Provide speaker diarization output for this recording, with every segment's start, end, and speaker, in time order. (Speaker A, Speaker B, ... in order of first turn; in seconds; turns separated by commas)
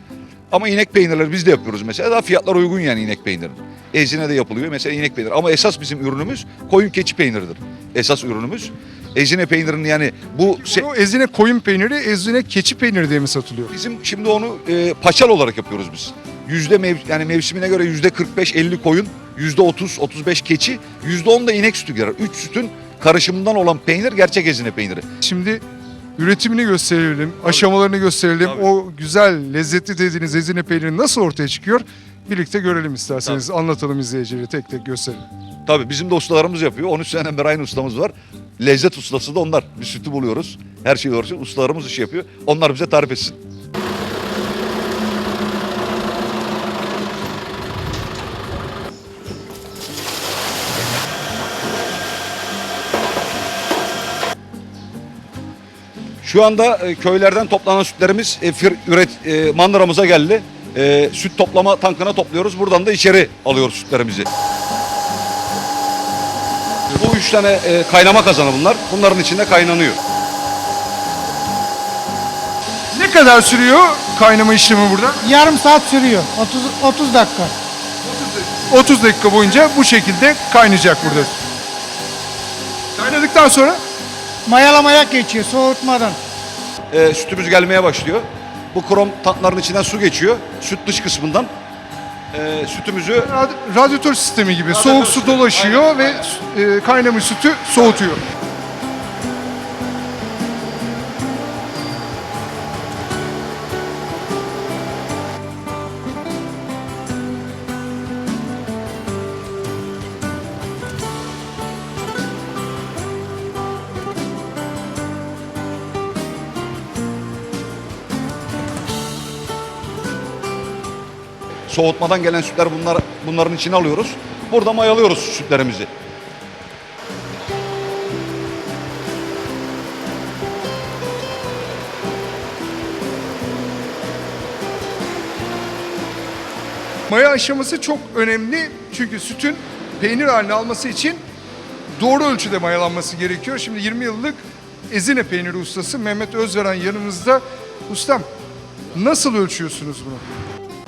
Speaker A: 0.5-10.8, Speaker B: 10.6-13.7, Speaker A: 13.7-25.0, Speaker B: 25.2-25.6, Speaker B: 26.1-35.2, Speaker A: 35.6-43.4, Speaker A: 56.2-64.3, Speaker A: 67.0-70.0, Speaker B: 72.9-75.2, Speaker C: 75.2-77.5, Speaker B: 78.0-81.3, Speaker B: 82.9-83.8, Speaker C: 84.5-86.2, Speaker A: 86.9-91.5, Speaker A: 92.3-93.3, Speaker B: 93.2-98.2, Speaker A: 94.7-96.2, Speaker A: 121.7-125.9, Speaker B: 137.1-141.2, Speaker B: 141.9-148.2, Speaker B: 148.9-150.2